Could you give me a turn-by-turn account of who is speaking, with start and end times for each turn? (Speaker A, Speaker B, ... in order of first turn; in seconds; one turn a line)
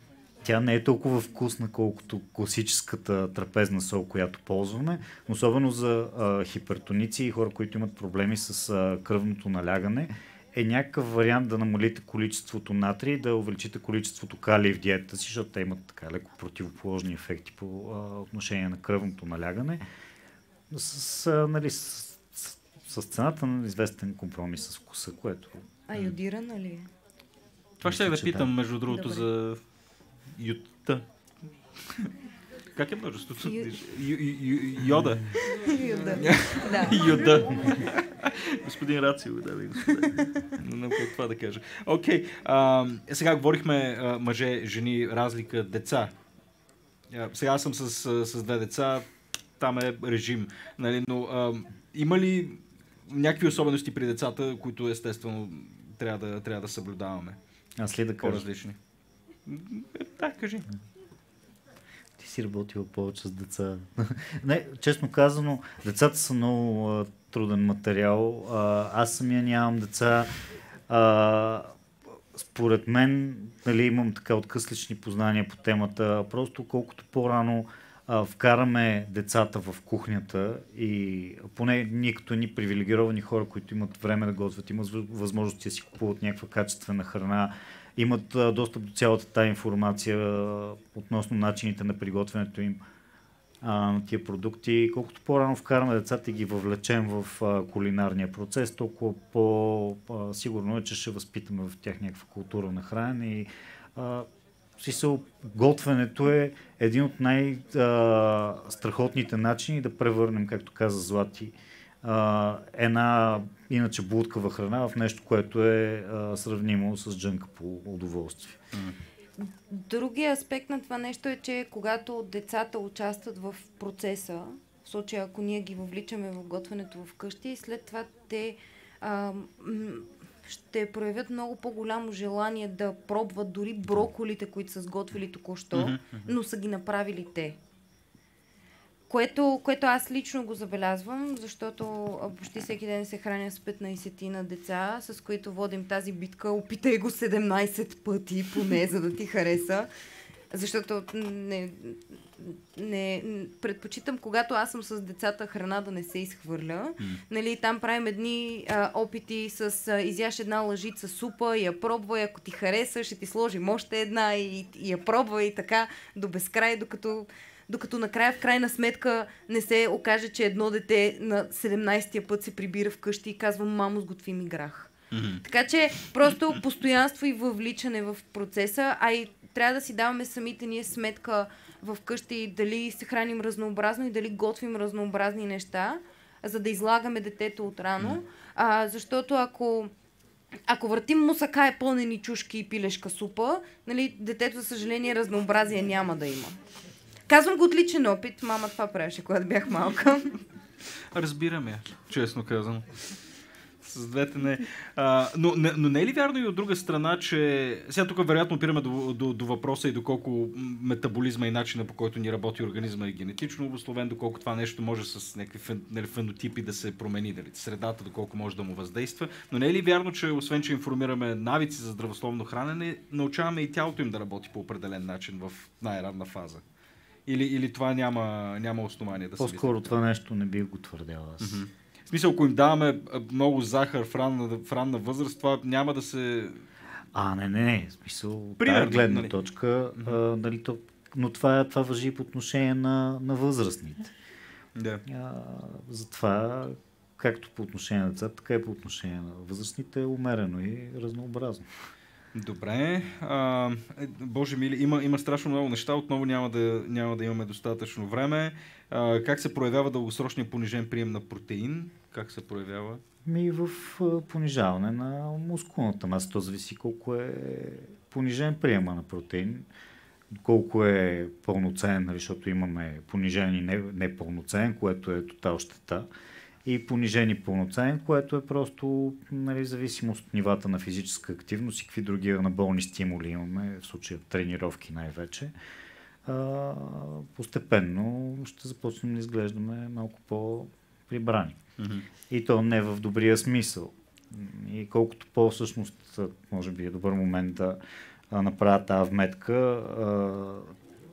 Speaker A: 0.4-19.8
Speaker A: 20.7-25.6
Speaker B: 25.9-26.9
Speaker C: 27.8-29.6
Speaker A: 27.8-28.5
Speaker B: 28.9-29.2
Speaker C: 30.3-31.1
Speaker C: 32.8-46.1
Speaker B: 33.4-33.7
Speaker B: 35.5-37.4
Speaker C: 47.1-49.1
Speaker C: 49.6-57.4
Speaker A: 57.8-58.4
Speaker C: 58.2-58.8
Speaker C: 59.5-60.7
Speaker A: 62.2-70.3
Speaker A: 70.9-71.8
Speaker A: 72.3-92.8
Speaker A: 93.6-104.3
Speaker A: 104.8-118.6
Speaker B: 119.4-137.6
Speaker C: 135.7-136.3
Speaker B: 139.1-149.9
Speaker B: 150.5-189.9
Speaker C: 175.1-175.4
Speaker B: 190.7-196.6
Speaker B: 197.3-200.4
Speaker C: 201.1-202.9
Speaker C: 203.8-226.6
Speaker C: 227.3-229.9
Speaker A: 229.4-231.6
Speaker C: 231.4-236.7
Speaker A: 237.1-244.1
Speaker C: 238.6-239.3
Speaker C: 244.8-245.0
Speaker A: 245.1-251.7
Speaker C: 252.3-263.0
Speaker A: 263.2-269.7
Speaker A: 270.3-276.1
Speaker A: 276.6-285.5
Speaker A: 286.3-291.6
Speaker C: 291.8-292.1
Speaker A: 292.3-297.8
Speaker A: 298.3-300.8